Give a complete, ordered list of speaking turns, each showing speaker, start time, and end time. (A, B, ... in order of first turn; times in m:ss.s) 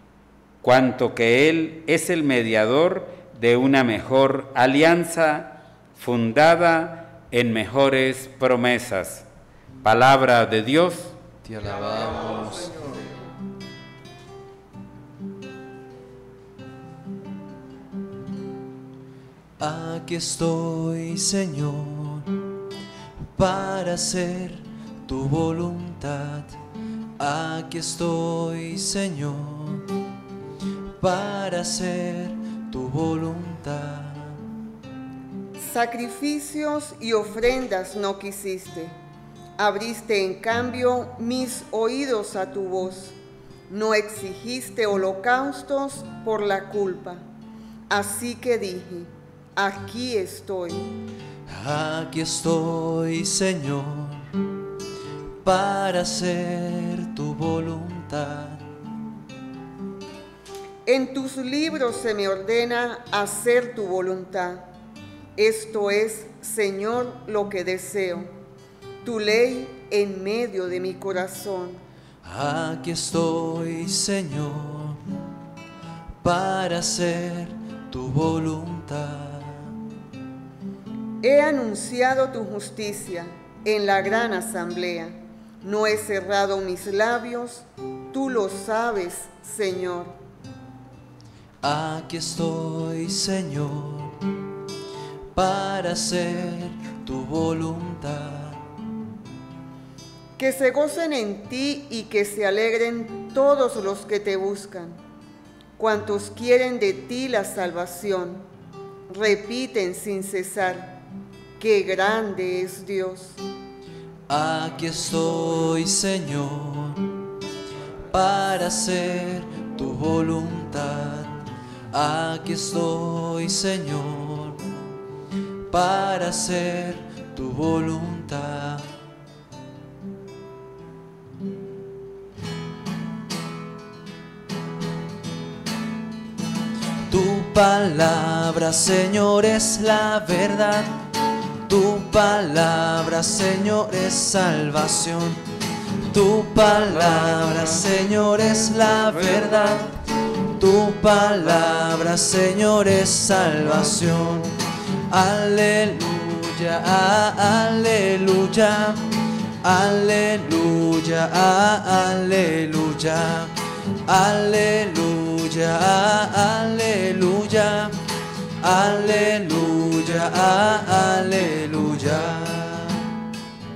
0:00.6-0:09.3 A
0:09.8-0:11.2 A
0:11.4-0:13.0 B
0:19.6-0:22.4 B
0:23.4-0:26.6 B
0:27.2-0:29.9 B
0:31.0-0:34.4 B
0:35.6-0:39.0 C
0:39.6-0:43.2 C
0:43.7-0:47.2 C
0:47.9-0:50.9 C
0:51.5-0:54.3 B
0:55.4-0:58.7 B
1:00.9-1:04.7 C
1:05.4-1:08.3 C
1:09.0-1:11.8 C
1:12.2-1:15.0 B
1:16.2-1:19.7 B
1:21.2-1:30.2 C
1:31.6-1:34.2 B
1:35.4-1:38.6 B
1:40.4-1:45.0 C
1:45.8-1:48.4 C
1:49.1-1:51.0 C
1:51.6-1:53.4 C
1:54.3-1:57.2 B
1:58.1-2:04.6 B
2:05.7-2:08.9 B
2:17.1-2:21.1 B
2:21.7-2:25.4 B
2:26.1-2:34.5 B
2:35.1-2:48.0 B
2:48.6-2:53.1 B